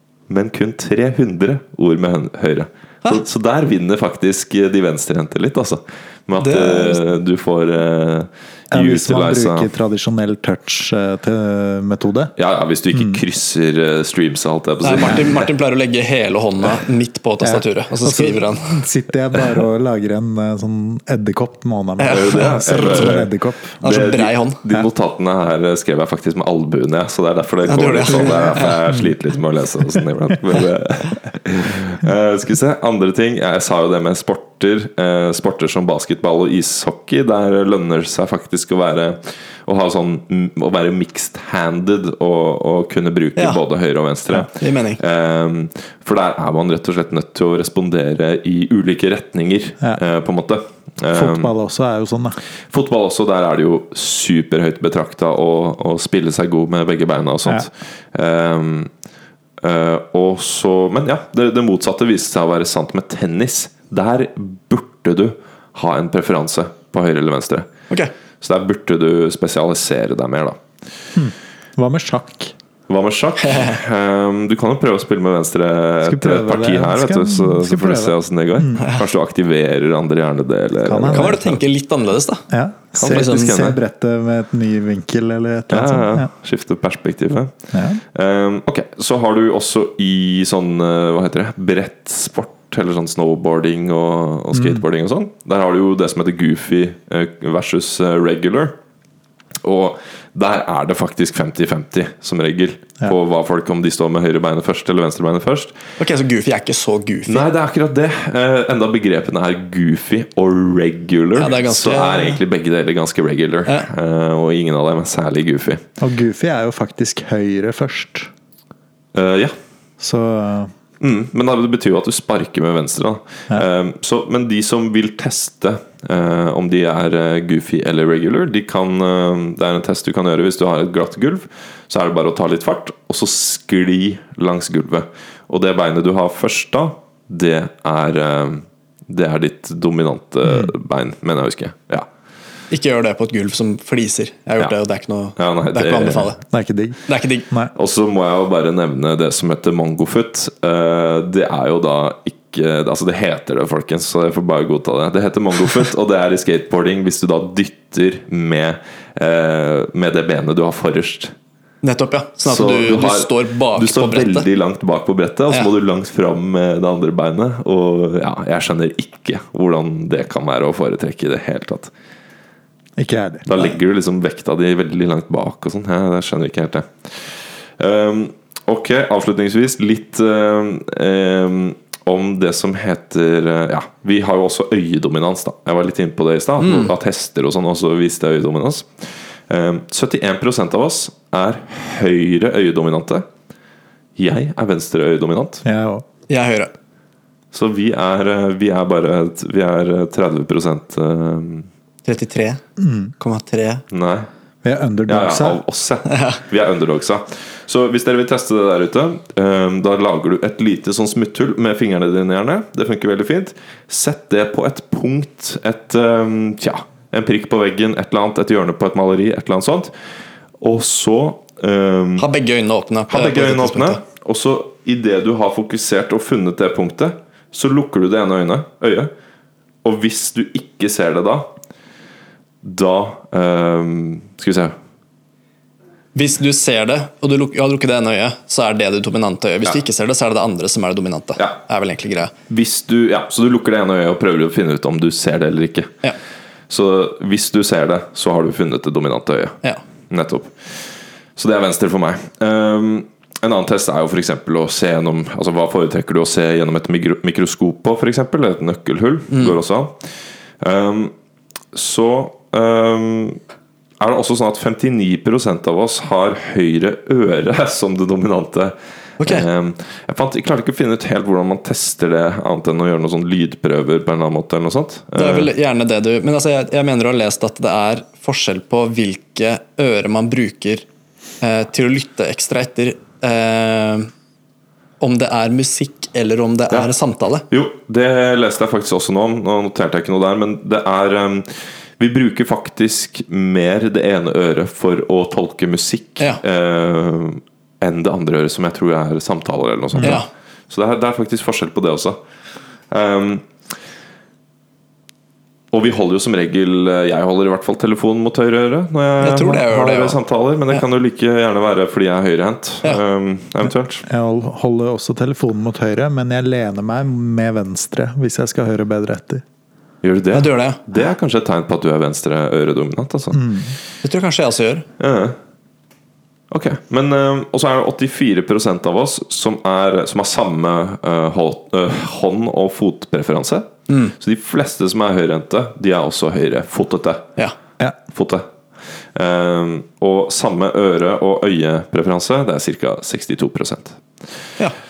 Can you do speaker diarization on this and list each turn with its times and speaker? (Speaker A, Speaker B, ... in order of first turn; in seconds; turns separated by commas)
Speaker A: 0.3-9.7, Speaker B: 6.4-7.0, Speaker C: 8.7-12.3, Speaker A: 12.4-15.5, Speaker C: 12.9-13.2, Speaker B: 14.8-18.8, Speaker C: 17.4-23.7, Speaker B: 22.0-23.2, Speaker A: 22.1-51.5, Speaker B: 23.8-24.6, Speaker B: 27.6-28.8, Speaker B: 44.5-45.0, Speaker C: 51.1-52.4, Speaker A: 52.7-58.9, Speaker A: 59.6-67.7, Speaker A: 68.4-70.6, Speaker C: 71.2-72.5, Speaker A: 72.9-81.6, Speaker B: 73.4-73.8, Speaker C: 76.0-78.9, Speaker C: 80.8-81.5, Speaker B: 81.1-82.5, Speaker C: 82.5-86.3, Speaker A: 83.0-83.8, Speaker B: 83.0-83.6, Speaker A: 85.7-98.8, Speaker C: 87.7-88.0, Speaker C: 94.5-94.8, Speaker A: 99.6-105.8, Speaker B: 106.0-107.5, Speaker A: 107.3-115.8, Speaker B: 111.4-112.4, Speaker C: 116.0-118.3, Speaker A: 119.1-119.5, Speaker C: 120.0-120.7, Speaker A: 121.0-142.1, Speaker C: 140.4-140.7, Speaker B: 142.7-146.4, Speaker A: 145.4-146.3, Speaker C: 146.5-147.7, Speaker B: 147.1-147.5, Speaker A: 147.8-161.3, Speaker B: 161.8-164.5, Speaker A: 162.4-171.9, Speaker C: 173.0-173.8, Speaker A: 173.5-193.3, Speaker B: 186.6-186.9, Speaker A: 194.2-195.7, Speaker C: 195.7-196.1, Speaker B: 196.3-196.7, Speaker A: 197.5-201.7, Speaker B: 202.1-202.6, Speaker C: 202.8-203.1, Speaker B: 203.2-203.8, Speaker A: 203.9-204.3, Speaker C: 204.6-205.6, Speaker A: 205.1-219.9, Speaker B: 206.1-206.4, Speaker A: 220.6-222.3, Speaker B: 222.2-224.0, Speaker A: 223.1-229.1, Speaker A: 229.8-231.5, Speaker A: 232.6-234.7, Speaker B: 236.2-242.3, Speaker A: 242.5-245.9, Speaker A: 246.7-249.6, Speaker A: 250.1-261.1, Speaker B: 259.3-259.6, Speaker A: 261.7-263.4, Speaker A: 264.0-275.5, Speaker B: 269.2-269.5, Speaker B: 275.2-280.9, Speaker B: 281.4-284.1, Speaker B: 285.0-287.5, Speaker A: 287.5-302.2, Speaker C: 299.9-300.2, Speaker B: 300.0-300.3, Speaker A: 302.9-303.5, Speaker A: 305.7-314.1, Speaker B: 309.2-310.2, Speaker C: 314.1-319.4, Speaker A: 320.0-323.5, Speaker B: 320.3-320.8, Speaker C: 323.3-323.8, Speaker B: 324.0-324.9, Speaker A: 325.0-325.4, Speaker A: 326.5-337.3, Speaker A: 338.1-338.5, Speaker A: 339.1-344.0